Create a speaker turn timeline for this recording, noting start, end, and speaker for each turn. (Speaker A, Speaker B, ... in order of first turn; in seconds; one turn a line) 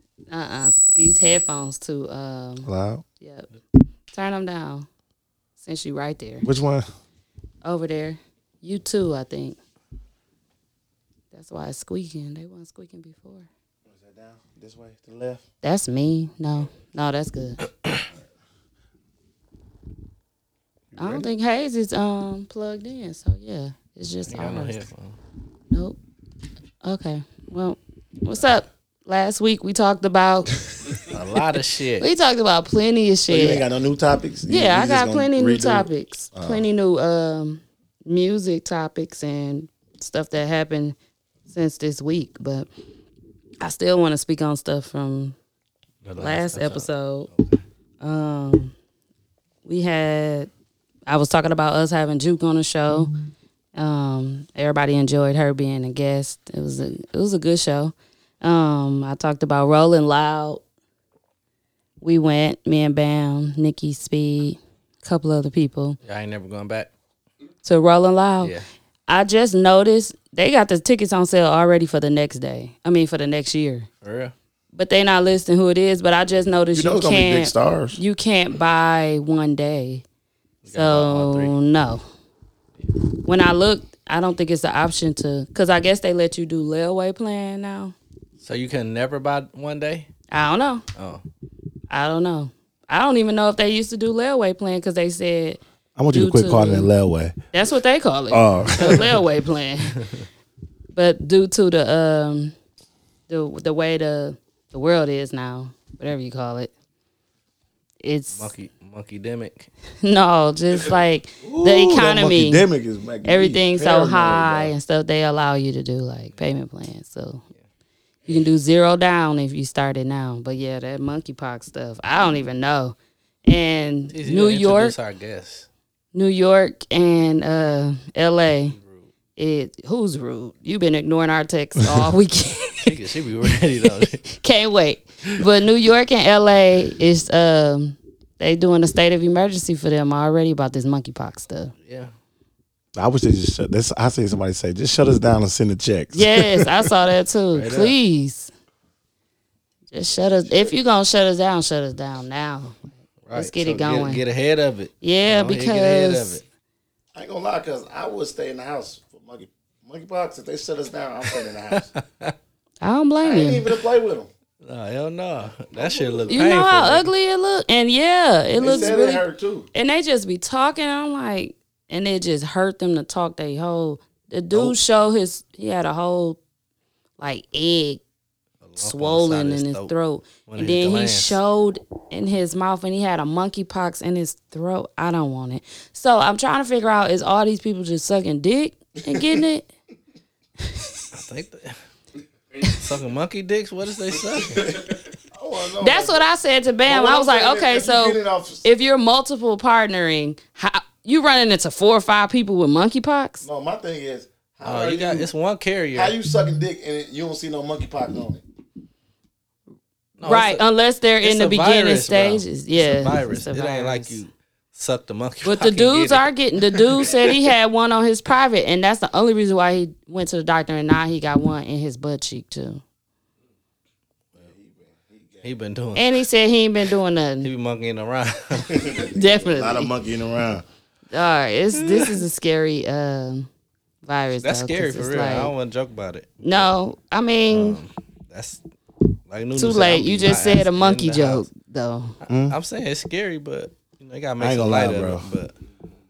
Speaker A: 0.3-3.5
Speaker B: 2.6-3.0
Speaker A: 4.1-4.9
Speaker A: 5.6-6.5
Speaker B: 6.4-6.9
Speaker A: 7.6-9.6
Speaker A: 11.3-13.5
Speaker B: 13.9-15.4
Speaker A: 15.6-17.6
Speaker B: 20.9-21.3
Speaker A: 21.0-24.8
Speaker C: 24.3-25.2
Speaker A: 25.7-26.0
Speaker A: 26.8-30.6
Speaker C: 31.1-32.1
Speaker A: 32.0-33.7
Speaker B: 33.3-36.7
Speaker A: 34.5-41.0
Speaker A: 41.5-42.7
Speaker A: 43.6-45.4
Speaker C: 46.0-47.6
Speaker A: 46.2-47.3
Speaker A: 48.0-48.7
Speaker A: 49.6-50.5
Speaker A: 51.1-53.1
Speaker A: 53.8-60.6
Speaker A: 62.0-66.0
Speaker C: 66.0-66.9
Speaker A: 67.6-68.5
Speaker C: 68.4-68.7
Speaker A: 69.1-73.9
Speaker C: 74.0-74.3
Speaker A: 74.7-80.0
Speaker B: 76.7-78.0
Speaker C: 80.6-81.5
Speaker A: 80.7-82.0
Speaker A: 83.2-88.0
Speaker C: 88.4-90.1
Speaker A: 90.3-90.8
Speaker C: 91.0-91.2
Speaker A: 91.9-95.6
Speaker B: 96.0-97.4
Speaker A: 96.1-96.9
Speaker A: 97.5-100.0
Speaker B: 98.3-99.2
Speaker A: 100.9-102.5
Speaker A: 103.3-106.7
Speaker A: 108.0-108.5
Speaker C: 108.4-109.7
Speaker A: 110.0-112.7
Speaker B: 111.4-114.7
Speaker A: 113.2-117.4
Speaker A: 118.3-125.0
Speaker C: 124.1-125.7
Speaker A: 126.1-128.8
Speaker C: 128.8-129.1
Speaker A: 129.4-132.9
Speaker C: 132.8-134.2
Speaker A: 134.0-141.7
Speaker C: 141.9-142.1
Speaker B: 142.9-146.8
Speaker A: 146.1-148.5
Speaker C: 147.5-147.9
Speaker A: 149.9-154.2
Speaker B: 150.4-150.7
Speaker C: 153.3-156.4
Speaker A: 155.0-156.4
Speaker B: 157.2-161.9
Speaker C: 161.3-162.3
Speaker A: 162.8-163.7
Speaker B: 163.2-164.3
Speaker C: 164.6-167.1
Speaker B: 165.8-166.5
Speaker A: 166.3-176.4
Speaker B: 168.6-169.7
Speaker A: 177.2-178.0
Speaker C: 178.6-179.9
Speaker A: 178.8-189.7
Speaker C: 180.5-181.4
Speaker B: 189.1-189.4
Speaker C: 191.1-191.8
Speaker C: 192.7-194.9
Speaker B: 194.7-196.2
Speaker A: 195.8-203.4
Speaker B: 196.9-198.7
Speaker B: 203.4-205.3
Speaker C: 204.6-206.2
Speaker B: 205.9-208.4
Speaker C: 210.2-210.6
Speaker A: 210.2-214.2
Speaker C: 211.2-216.3
Speaker A: 215.4-222.8
Speaker B: 224.4-225.5
Speaker C: 225.4-226.2
Speaker A: 225.9-227.5
Speaker C: 227.4-229.0
Speaker B: 228.7-230.7
Speaker A: 228.9-229.9
Speaker A: 231.1-233.5
Speaker C: 231.8-232.2
Speaker A: 234.0-235.5
Speaker C: 234.4-236.7
Speaker A: 236.4-237.8
Speaker C: 237.5-238.6
Speaker C: 239.3-241.5
Speaker A: 239.6-242.2
Speaker C: 242.2-245.5
Speaker B: 242.3-242.6
Speaker B: 244.4-245.3